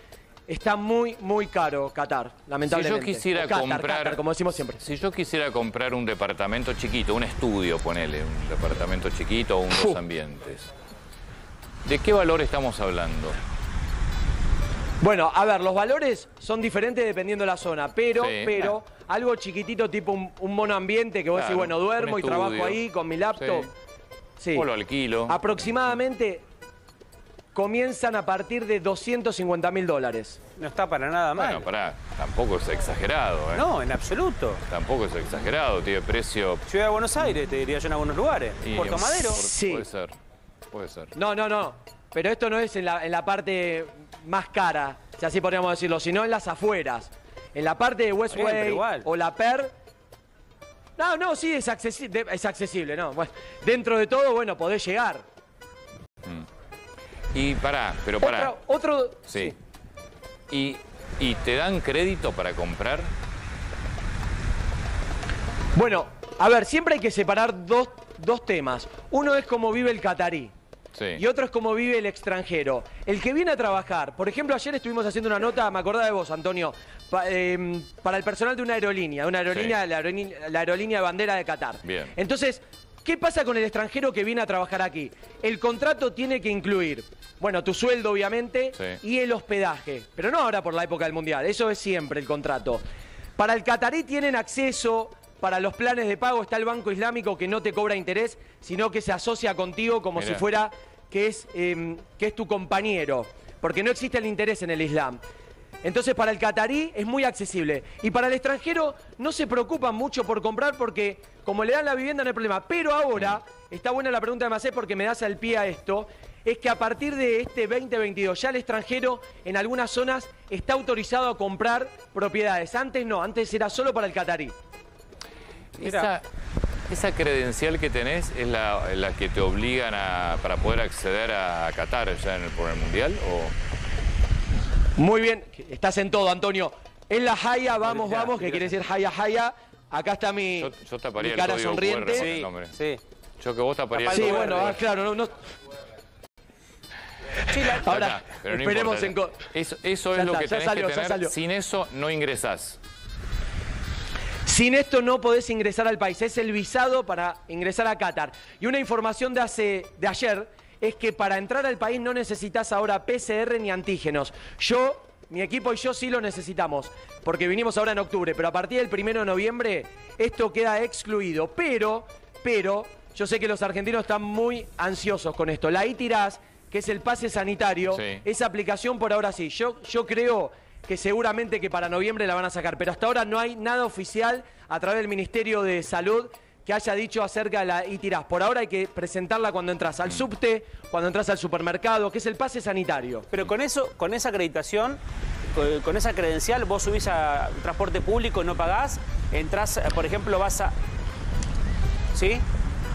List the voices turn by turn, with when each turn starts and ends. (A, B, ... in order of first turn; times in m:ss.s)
0:00.5-0:04.8 A
0:02.7-0:04.2 B
0:04.8-0:10.7 B
0:11.8-0:13.4 B
0:15.0-0:23.7 A
0:18.2-0:18.8 B
0:21.3-0:22.8 B
0:23.3-0:23.7 B
0:24.4-0:24.6 A
0:24.5-0:25.5 B
0:25.3-0:26.4 A
0:27.5-0:30.4 A
0:30.6-0:31.7 C
0:31.4-0:33.6 B
0:33.5-0:34.6 C
0:34.6-0:36.6 B
0:36.7-0:39.4 C
0:38.6-0:40.2 B
0:39.3-0:39.8 A
0:40.7-0:41.1 B
0:41.1-0:49.7 A
0:48.3-0:49.1 C
0:51.0-0:55.2 A
0:57.3-0:58.5 B
0:58.2-0:59.5 A
0:59.3-0:59.5 B
1:00.5-1:03.1 B
1:05.7-1:10.5 A
1:10.9-1:11.2 B
1:11.2-1:32.8 A
1:19.5-1:19.8 B
1:21.8-1:22.1 B
1:33.4-1:45.2 A
1:40.2-1:40.4 B
1:45.8-2:04.5 A
2:05.7-2:06.2 B
2:05.8-2:06.1 C
2:06.9-2:13.5 B
2:15.0-2:22.3 A
2:17.8-2:18.8 C
2:20.6-2:22.7 B
2:22.1-2:23.0 C
2:23.4-2:24.8 B
2:23.9-2:24.8 C
2:24.1-2:25.3 A
2:27.5-2:27.9 C
2:27.6-2:29.4 A
2:27.8-2:32.8 B
2:30.1-2:31.3 A
2:34.4-3:13.3 A
2:57.9-2:58.2 B
3:13.3-3:15.0 C
3:15.5-3:20.7 C
3:22.1-3:22.4 C